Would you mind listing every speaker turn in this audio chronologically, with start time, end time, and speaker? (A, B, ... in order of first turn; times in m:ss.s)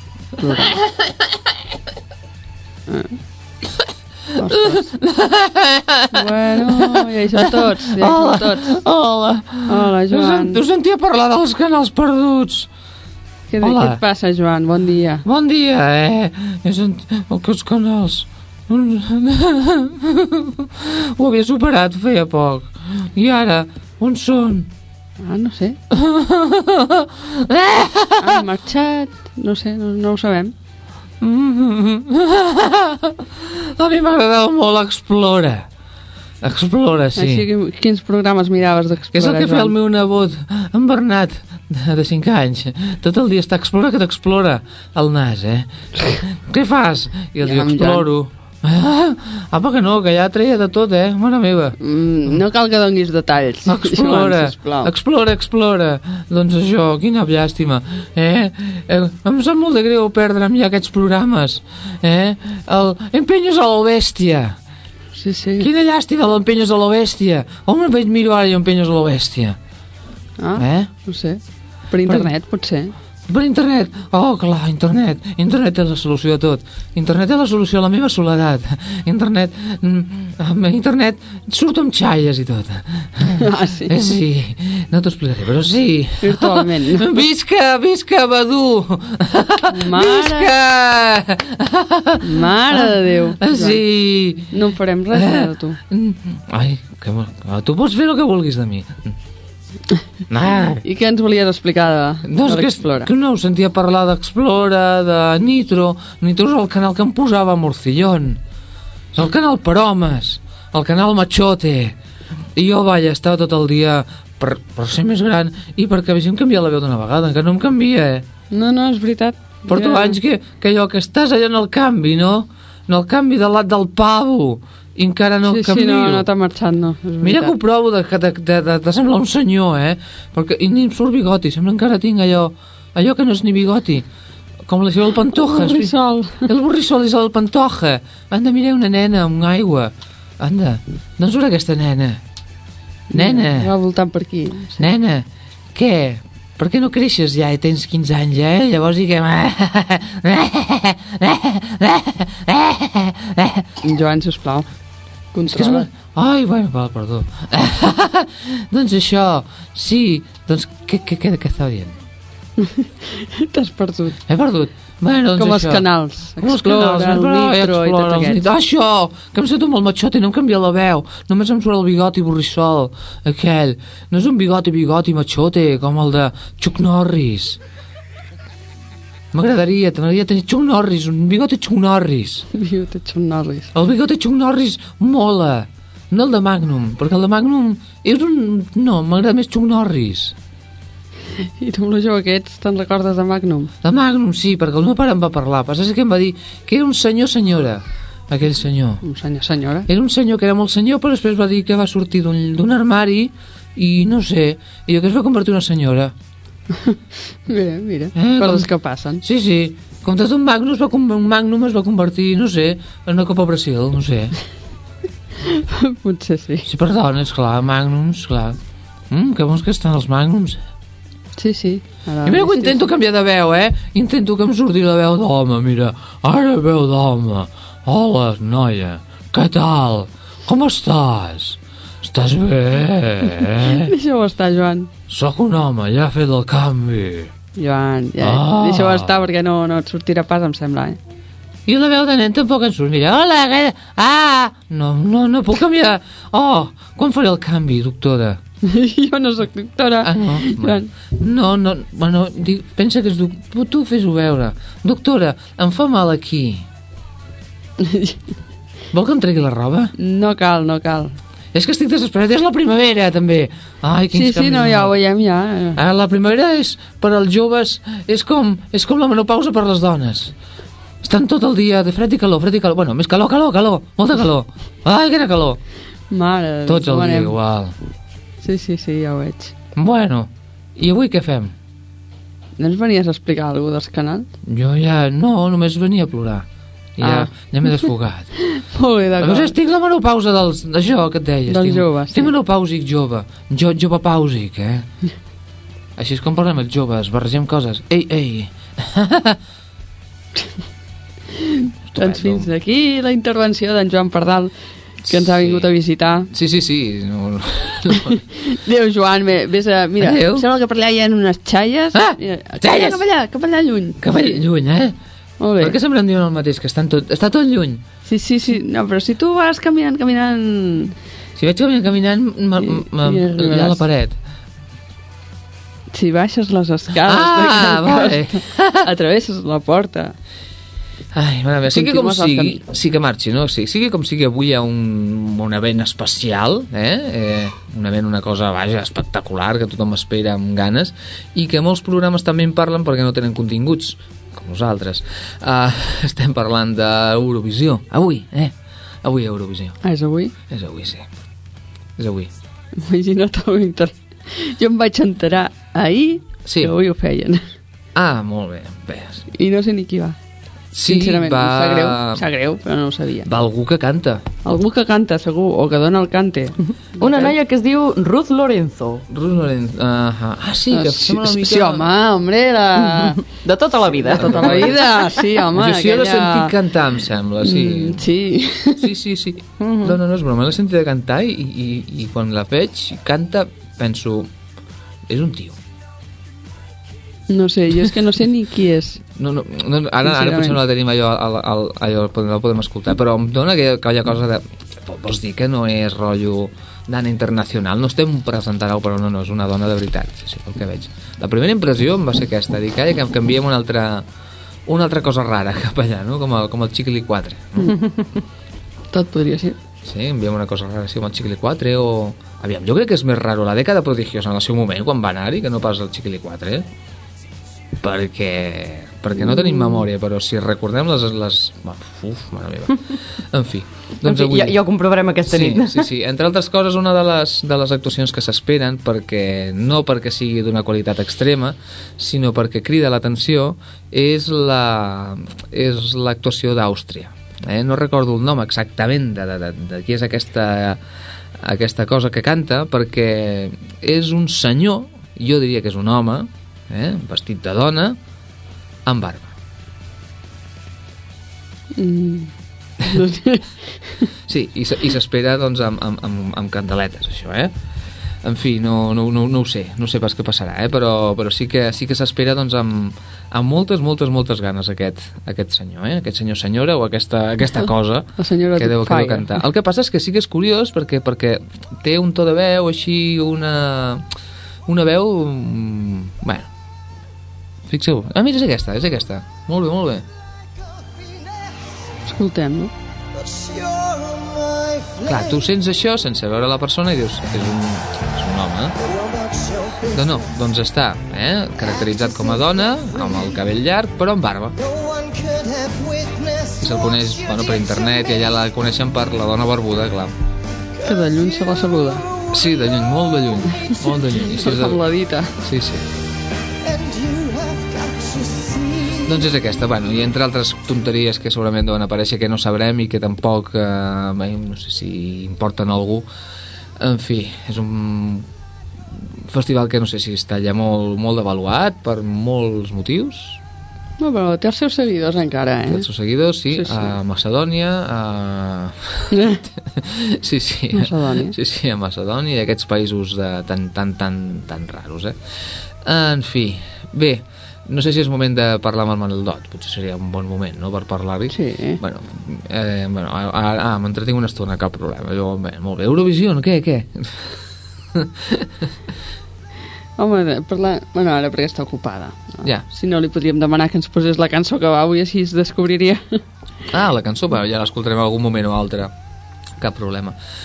0:00.4-0:00.7 A
0:00.6-0:00.9 B
0:04.3-0:04.9 A
0:04.4-0:12.7 B
0:06.1-0:08.7 A
0:09.7-0:10.6 A
0:13.5-0:15.2 A
0:13.6-0:14.0 B
0:15.2-0:24.7 B
0:25.2-0:25.8 A
0:25.9-0:28.4 B
0:28.2-0:30.5 A
0:31.2-0:35.7 B
0:36.4-0:37.5 B
0:37.2-0:39.7 A
0:39.1-0:52.4 B
0:47.4-0:48.0 A
0:51.8-0:54.9 A
0:53.6-1:04.6 B
1:05.2-1:05.7 A
1:05.6-1:09.6 B
1:10.4-1:11.4 A
1:10.6-1:10.9 B
1:11.9-1:12.9 A
1:12.0-1:12.3 B
1:13.3-1:39.2 B
1:23.4-1:23.9 A
1:26.2-1:27.0 A
1:29.7-1:30.5 A
1:32.2-1:33.8 A
1:34.5-1:35.8 A
1:40.3-1:40.8 B
1:40.9-1:43.1 A
1:42.2-1:48.4 B
1:49.1-1:52.0 B
1:52.6-1:58.2 B
1:58.5-2:00.2 A
1:59.6-2:06.3 B
2:05.5-2:07.5 A
2:07.2-2:14.0 B
2:14.6-2:22.2 B
2:15.5-2:16.3 A
2:23.1-2:23.7 B
2:23.1-2:24.8 A
2:24.8-2:33.7 B
2:33.9-2:34.6 A
2:35.3-2:35.8 A
2:35.4-2:42.0 B
2:43.5-2:44.1 A
2:44.2-2:57.6 B
2:45.3-2:48.4 A
2:59.3-3:02.5 B
3:02.6-3:03.6 A
3:03.7-3:10.3 B
3:11.6-3:13.7 A
3:13.8-3:19.0 B
3:19.0-3:19.8 A
3:19.8-3:26.1 B
3:27.5-3:29.2 A
3:28.1-3:34.3 B
3:36.0-3:36.6 A
3:36.6-3:38.6 B
3:39.1-3:40.6 B
3:41.4-3:42.8 A
3:42.2-3:53.9 B
3:53.8-3:54.9 A
3:55.1-3:57.3 B
3:57.6-4:01.0 A
3:58.2-3:59.3 B
4:01.6-4:08.4 B
4:08.8-4:10.8 A
4:10.0-4:16.6 B
4:18.9-4:19.9 B
4:20.0-4:21.1 A
4:21.5-4:25.0 B
4:24.1-4:25.8 A
4:25.7-4:30.3 B
4:31.0-4:35.6 B
4:36.1-4:37.3 A
4:36.6-4:37.7 B
4:38.4-4:39.5 A
4:39.8-4:41.5 B
4:42.6-4:44.2 A
4:44.4-4:46.4 B
4:47.0-4:48.5 B
4:47.0-4:47.3 A
4:48.7-4:49.5 A
4:49.2-4:54.9 B
4:51.5-4:52.3 A
4:56.0-4:59.4 B
5:01.9-5:02.5 B
5:02.0-5:04.5 A
5:05.0-5:05.8 B
5:05.1-5:06.3 A
5:06.3-5:08.2 B
5:08.7-5:14.2 A
5:10.0-5:10.5 B
5:11.9-5:13.0 B
5:14.0-5:15.0 B
5:15.4-5:15.8 A
5:15.5-5:17.8 B
5:18.1-5:20.9 A
5:21.4-5:24.2 B
5:22.8-5:23.8 A
5:25.9-5:28.2 A
5:26.9-5:28.9 B
5:28.8-5:30.1 A
5:31.1-5:49.8 B
5:31.7-5:32.6 A
5:49.8-5:50.3 A
5:50.5-5:51.0 B
5:52.0-5:52.3 B
5:52.9-5:53.9 A
5:54.6-5:57.4 A
5:56.4-5:56.7 B
5:57.9-5:59.2 B
5:59.4-6:00.1 A
6:00.7-6:02.2 B
6:00.9-6:03.3 A
6:03.2-6:04.2 B
6:04.4-6:06.5 A
6:07.0-6:09.0 C
6:09.1-6:11.9 B
6:10.7-6:13.0 A
6:13.0-6:15.0 C
6:14.1-6:14.8 B
6:14.2-6:16.5 A
6:15.5-6:18.1 B
6:17.4-6:18.8 A
6:18.7-6:24.3 B
6:19.6-6:20.0 C
6:25.1-6:25.6 B
6:27.3-6:29.0 A
6:29.1-6:44.0 B
6:30.1-6:30.6 A
6:44.7-6:47.7 B
6:48.9-6:49.5 A
6:49.8-6:56.6 B
6:57.8-7:04.5 B
7:04.0-7:05.8 C
7:05.2-7:20.8 B
7:21.4-7:28.0 B
7:28.8-7:29.3 B
7:31.8-7:32.3 A
7:32.9-7:33.4 A
7:34.3-7:37.5 B
7:38.2-7:54.0 B
7:48.2-7:49.3 A
7:54.7-7:56.5 B
7:57.7-8:00.0 B
8:02.1-8:02.7 A
8:05.0-8:08.8 B
8:09.8-8:14.6 B
8:16.5-8:20.1 B
8:20.8-8:22.0 A
8:22.3-8:25.8 B
8:24.4-8:25.3 A
8:28.9-8:36.1 B
8:36.8-8:38.3 B
8:39.2-8:43.4 B
8:44.0-8:45.8 A
8:45.7-9:07.4 B
8:50.7-8:51.3 A
9:01.3-9:01.8 A
9:07.9-9:08.7 B
9:10.0-9:16.0 A
9:16.7-9:18.9 B
9:19.6-9:20.2 B